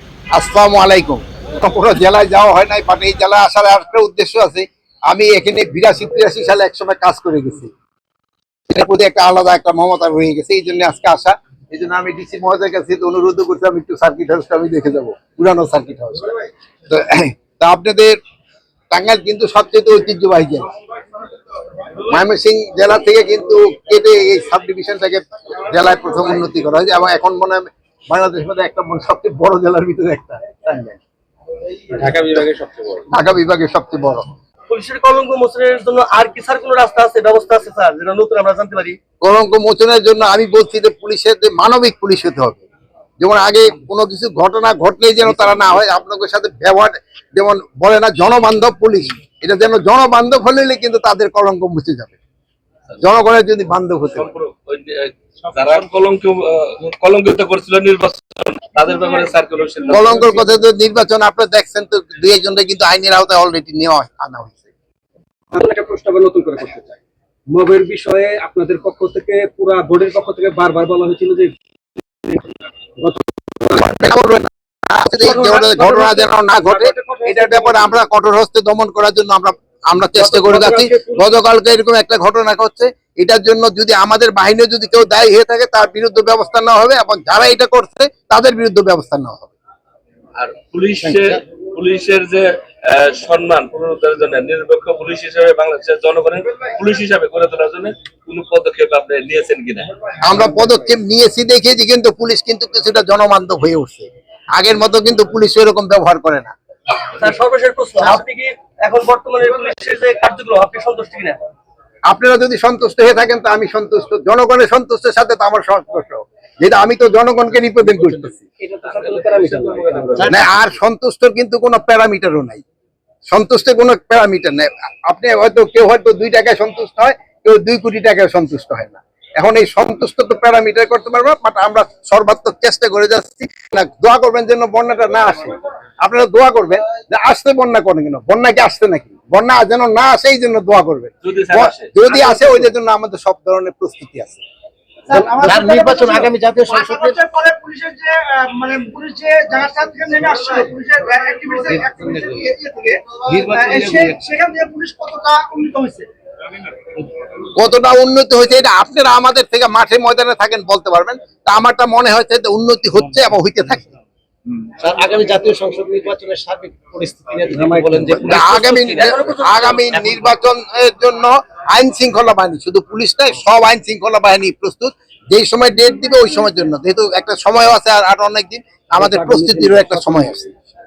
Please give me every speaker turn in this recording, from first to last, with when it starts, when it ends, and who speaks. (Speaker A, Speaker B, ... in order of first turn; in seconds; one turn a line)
Speaker A: 0.3-7.7
Speaker A: 8.7-16.4
Speaker A: 16.9-18.2
Speaker A: 18.9-20.7
Speaker A: 22.1-31.0
Speaker A: 32.2-32.5
Speaker A: 33.1-34.3
Speaker B: 34.7-39.0
Speaker A: 39.2-42.6
Speaker A: 43.2-52.2
Speaker A: 53.0-54.3
Speaker C: 54.2-60.2
Speaker A: 59.9-64.7
Speaker D: 65.5-67.0
Speaker D: 67.5-71.5
Speaker D: 73.0-73.9
Speaker A: 73.7-89.5
Speaker B: 75.2-76.2
Speaker D: 76.8-77.9
Speaker D: 80.2-81.3
Speaker C: 90.3-99.9
Speaker A: 91.0-91.4
Speaker A: 100.2-106.5
Speaker B: 107.1-111.4
Speaker A: 112.1-118.4
Speaker D: 118.1-120.4
Speaker A: 120.2-122.6
Speaker A: 123.3-144.4
Speaker C: 141.3-141.9
Speaker E: 145.1-146.3
Speaker F: 145.1-147.2
Speaker E: 146.9-156.1
Speaker A: 157.5-163.9
Speaker F: 164.8-169.4
Speaker D: 167.5-168.4
Speaker A: 168.1-180.5
Speaker B: 168.3-170.3
Speaker D: 178.9-180.3